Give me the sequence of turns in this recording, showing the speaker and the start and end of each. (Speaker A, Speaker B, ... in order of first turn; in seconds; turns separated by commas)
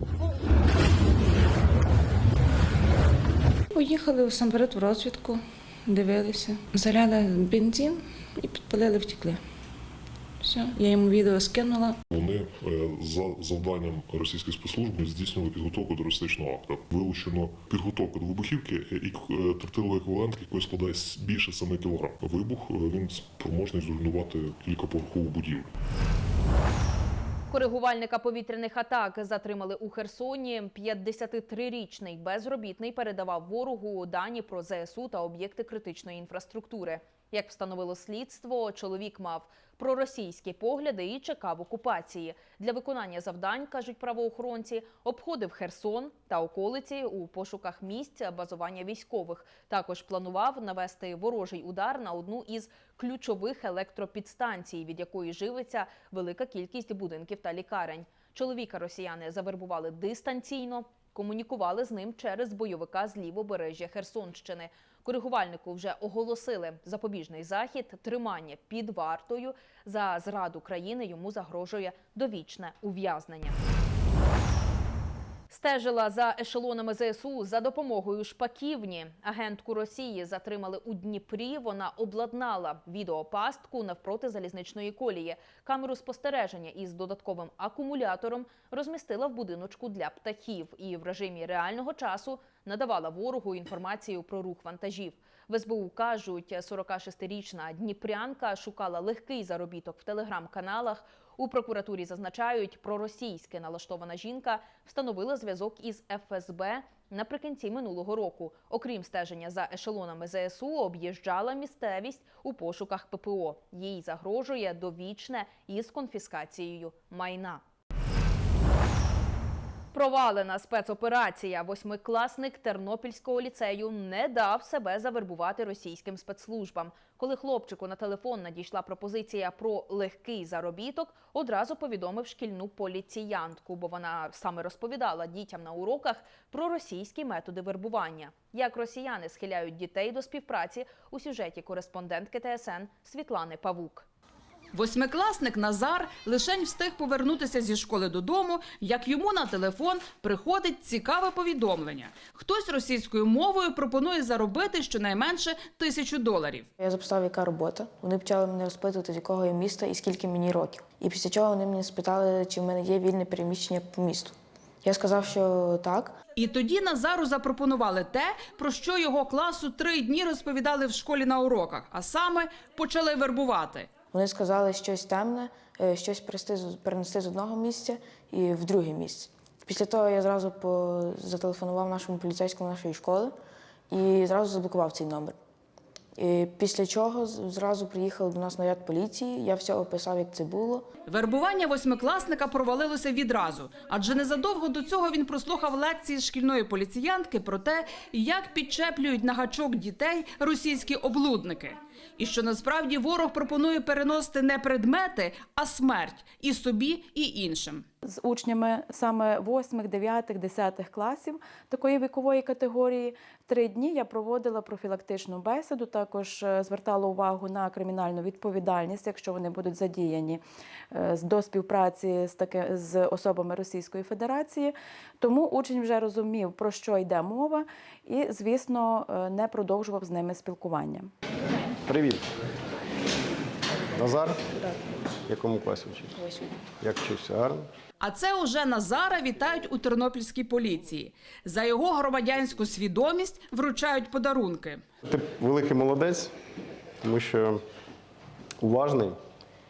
Speaker A: 3.8-9.4, Speaker A: 10.4-11.9, Speaker B: 12.1-25.7, Speaker C: 27.5-73.6, Speaker C: 75.5-117.6, Speaker C: 119.9-144.1, Speaker D: 144.7-156.7, Speaker E: 156.8-166.2, Speaker D: 166.4-173.9, Speaker E: 174.1-183.3, Speaker E: 183.9-185.3, Speaker E: 186.2-190.8, Speaker D: 191.1-207.8, Speaker F: 208.0-231.1, Speaker G: 231.8-232.2, Speaker G: 233.9-234.4, Speaker G: 235.3-237.7, Speaker D: 238.0-244.8, Speaker G: 245.1-246.3, Speaker G: 247.0-247.6, Speaker G: 248.6-249.2